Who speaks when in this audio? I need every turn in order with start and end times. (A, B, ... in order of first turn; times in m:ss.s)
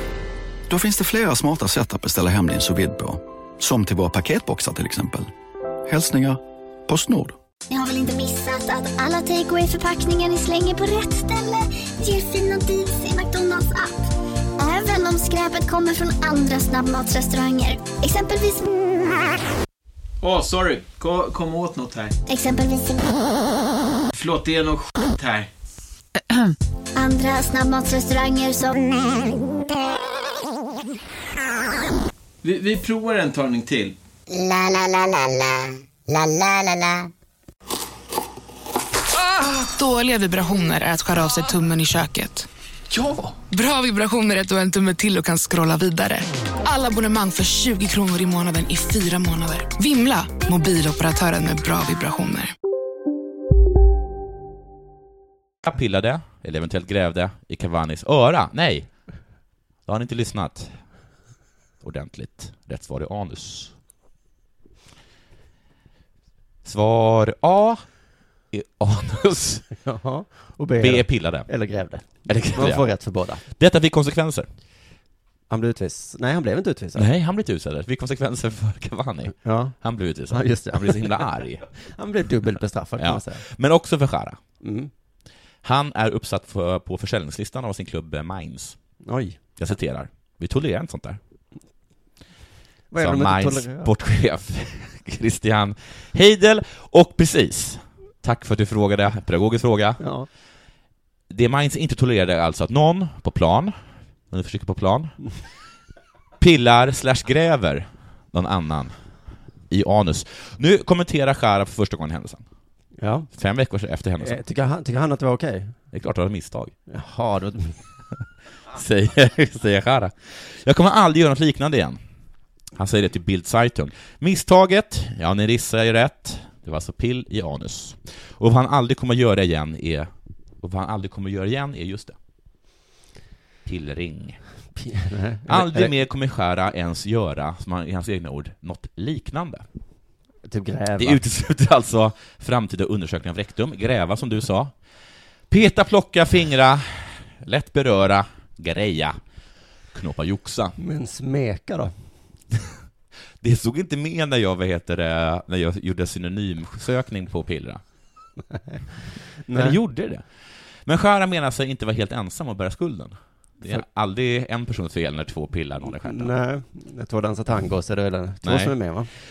0:00.7-0:05.3 A
0:05.9-0:07.4 A
0:07.7-0:14.0 B
0:14.6-0:18.7 B
0:20.2-0:22.2 C
0:22.3-0:23.2 B
0:24.1-0:25.5 C
0:27.0-0:29.4 B
0:32.4-0:33.9 C
0:34.3-0:37.1 B
0:39.6-0:42.5 D
0:43.5-0:52.5 D
0:55.6-0:58.9 E
0:59.8-1:00.8 E
1:01.8-1:03.7 E
1:06.6-1:07.8 E
1:08.5-1:09.7 E
1:09.8-1:13.4 F
1:10.8-1:11.5 E
1:12.2-1:12.9 E
1:13.5-1:14.5 E
1:15.5-1:17.1 F
1:16.9-1:21.7 E
1:19.4-1:19.8 F
1:20.3-1:21.2 F
1:21.8-1:23.4 F
1:23.0-1:24.4 E
1:24.6-1:24.9 F
1:25.6-1:28.8 E
1:29.0-1:29.4 F
1:29.6-1:31.2 E
1:32.9-1:33.9 F
1:33.0-1:40.0 E
1:40.0-1:40.3 F
1:41.3-1:43.7 E
1:44.3-1:45.2 E
1:46.4-1:48.9 E
1:49.7-1:52.4 E
1:53.0-1:53.3 F
1:53.3-1:54.4 E
1:54.2-1:55.7 F
1:55.9-1:56.7 E
1:56.9-1:57.8 F
1:58.7-2:02.0 E
2:02.7-2:10.1 E
2:10.6-2:12.2 E
2:13.6-2:14.4 E
2:14.8-2:15.9 F
2:15.5-2:19.6 E
2:20.5-2:21.2 F
2:21.0-2:24.7 E
2:25.5-2:29.2 E
2:29.9-2:30.8 E
2:30.8-2:31.9 F
2:33.4-2:37.8 E
2:39.4-2:39.8 F
2:39.5-2:40.2 E
2:40.8-2:46.3 E
2:45.9-2:49.1 F
2:48.4-2:48.7 E